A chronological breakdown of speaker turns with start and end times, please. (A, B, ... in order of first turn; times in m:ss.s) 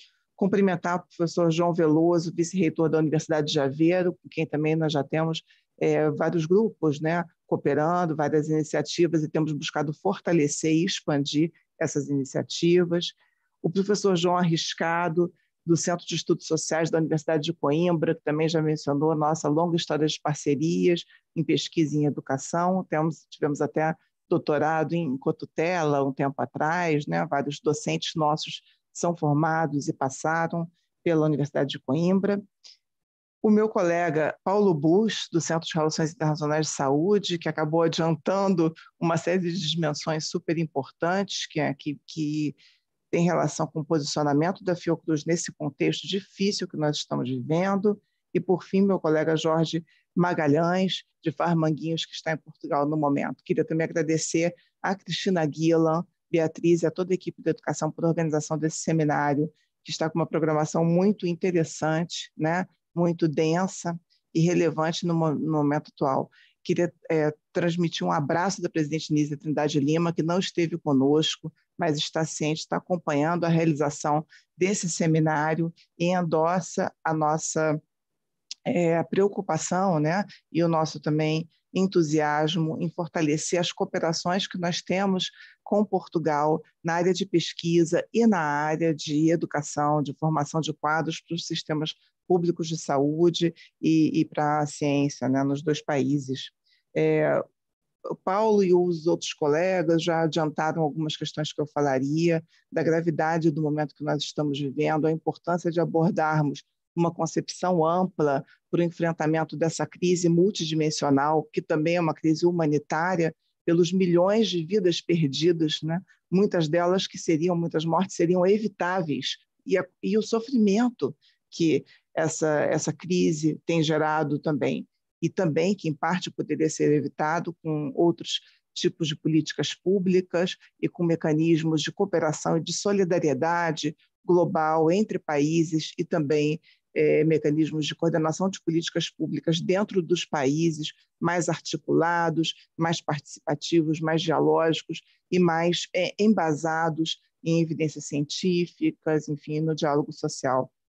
0:00.4-0:32.4 A
0:33.4-0:42.6 A
0:43.1-1:17.8 A
1:18.7-1:37.4 A
1:38.1-2:30.7 A